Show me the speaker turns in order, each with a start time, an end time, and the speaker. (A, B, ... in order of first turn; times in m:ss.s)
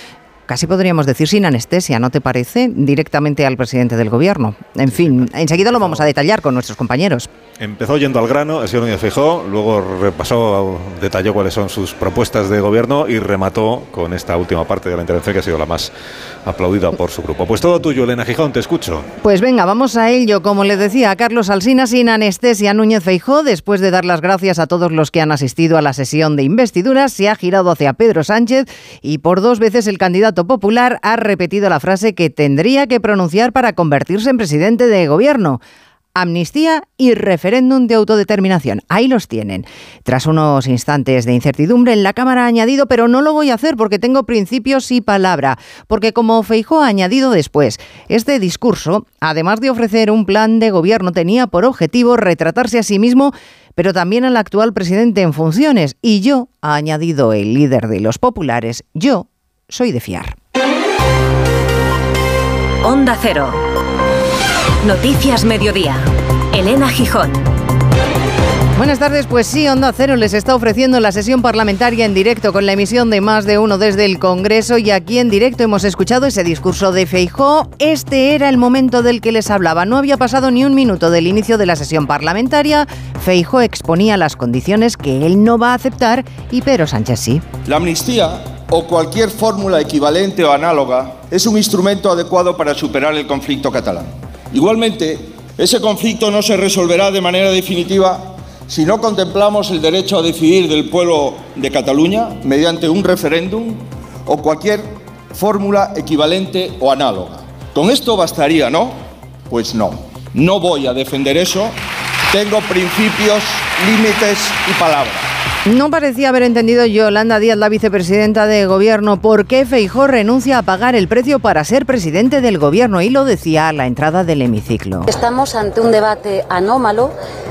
0:00.5-0:07.3 A
0:04.9-0:06.1 B
0:07.6-0:15.9 B
0:16.4-0:19.1 B
0:19.2-0:35.6 A
0:36.2-1:00.3 A
1:02.8-1:03.6 C
1:04.8-1:07.5 C
1:08.8-1:27.4 A
1:27.6-1:51.8 D
1:52.3-1:55.3 D
1:55.7-2:05.1 A
2:05.1-2:07.1 E